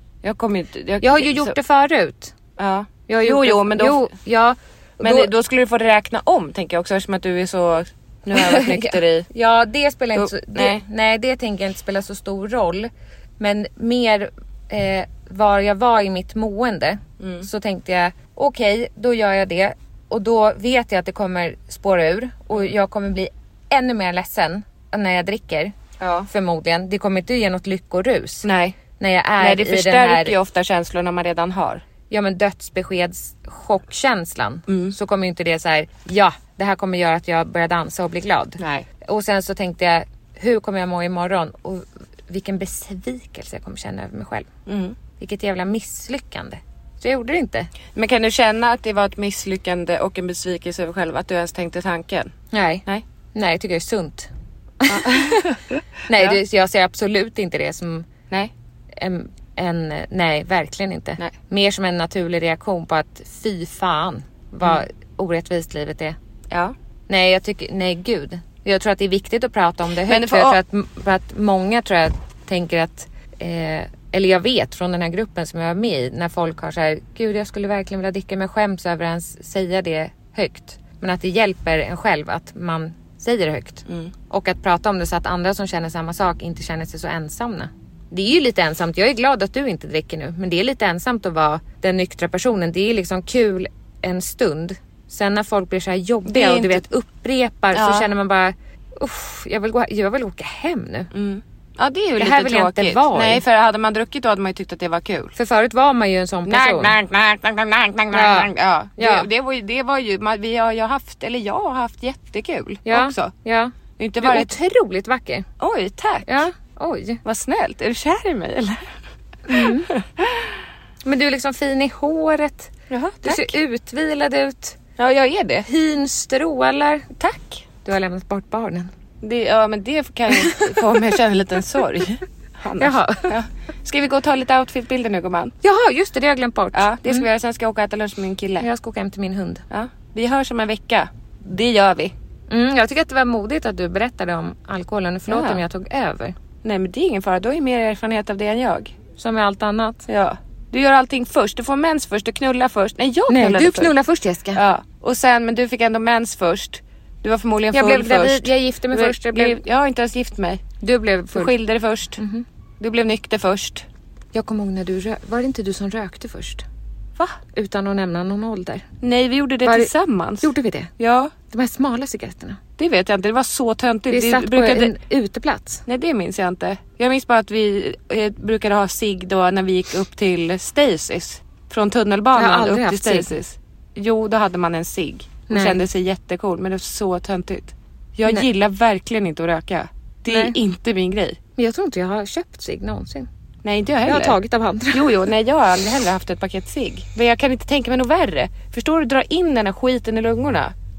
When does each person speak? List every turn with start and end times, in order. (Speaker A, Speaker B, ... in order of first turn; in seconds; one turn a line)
Speaker A: 0.2-1.6
Speaker B: 1.0-2.3
Speaker A: 2.6-4.1
Speaker B: 3.1-5.3
Speaker A: 5.0-9.3
Speaker B: 8.3-25.7
Speaker A: 10.2-10.8
Speaker A: 17.2-17.5
Speaker A: 26.0-26.3
Speaker B: 26.3-28.5
Speaker A: 28.4-28.8
Speaker B: 29.0-30.4
Speaker A: 29.4-31.8
Speaker B: 32.1-44.5
Speaker A: 34.7-34.9
Speaker A: 38.6-38.9
Speaker A: 44.6-45.0
Speaker B: 45.2-47.7
Speaker A: 47.9-52.3
Speaker B: 52.5-54.3
Speaker B: 54.8-55.5
Speaker A: 54.9-56.4
Speaker B: 56.0-58.1
Speaker B: 58.9-66.2
Speaker A: 66.5-66.7
Speaker B: 67.1-101.1
Speaker A: 70.1-70.6
Speaker A: 83.9-84.1
Speaker A: 96.2-96.8
Speaker A: 97.7-98.1
Speaker A: 101.1-105.3
Speaker B: 102.2-103.4
Speaker B: 105.3-106.9
Speaker A: 106.5-113.3
Speaker B: 108.1-109.3
Speaker B: 112.8-115.5
Speaker A: 114.0-114.5
Speaker A: 115.6-116.4
Speaker B: 116.2-117.2
Speaker A: 117.2-118.9
Speaker B: 119.5-119.9
Speaker A: 119.5-120.5
Speaker B: 121.0-122.7
Speaker A: 122.9-123.5
Speaker B: 123.2-124.8
Speaker A: 125.0-125.7
Speaker B: 125.7-127.1
Speaker A: 127.2-127.6
Speaker B: 127.8-128.9
Speaker A: 129.2-135.5
Speaker B: 130.3-130.8
Speaker B: 132.8-133.4
Speaker B: 135.6-137.3
Speaker A: 136.7-138.7
Speaker B: 138.6-139.6
Speaker A: 139.7-142.1
Speaker B: 142.5-146.3
Speaker A: 145.3-145.6
Speaker A: 146.6-148.9
Speaker B: 149.2-150.1
Speaker A: 150.1-153.9
Speaker B: 153.3-154.6
Speaker A: 154.5-160.6
Speaker B: 157.7-159.6
Speaker B: 160.8-161.5
Speaker A: 161.3-162.2
Speaker B: 162.2-162.4
Speaker A: 162.8-163.8
Speaker B: 164.3-166.6
Speaker B: 167.2-168.8
Speaker A: 169.0-171.3
Speaker B: 169.6-170.9
Speaker B: 171.5-172.6
Speaker A: 172.8-174.9
Speaker B: 174.1-175.8
Speaker A: 175.8-191.4
Speaker B: 182.3-183.3
Speaker B: 185.5-185.8
Speaker B: 190.3-190.5
Speaker B: 191.6-193.3
Speaker A: 193.6-194.4
Speaker B: 194.1-195.3
Speaker A: 194.9-200.7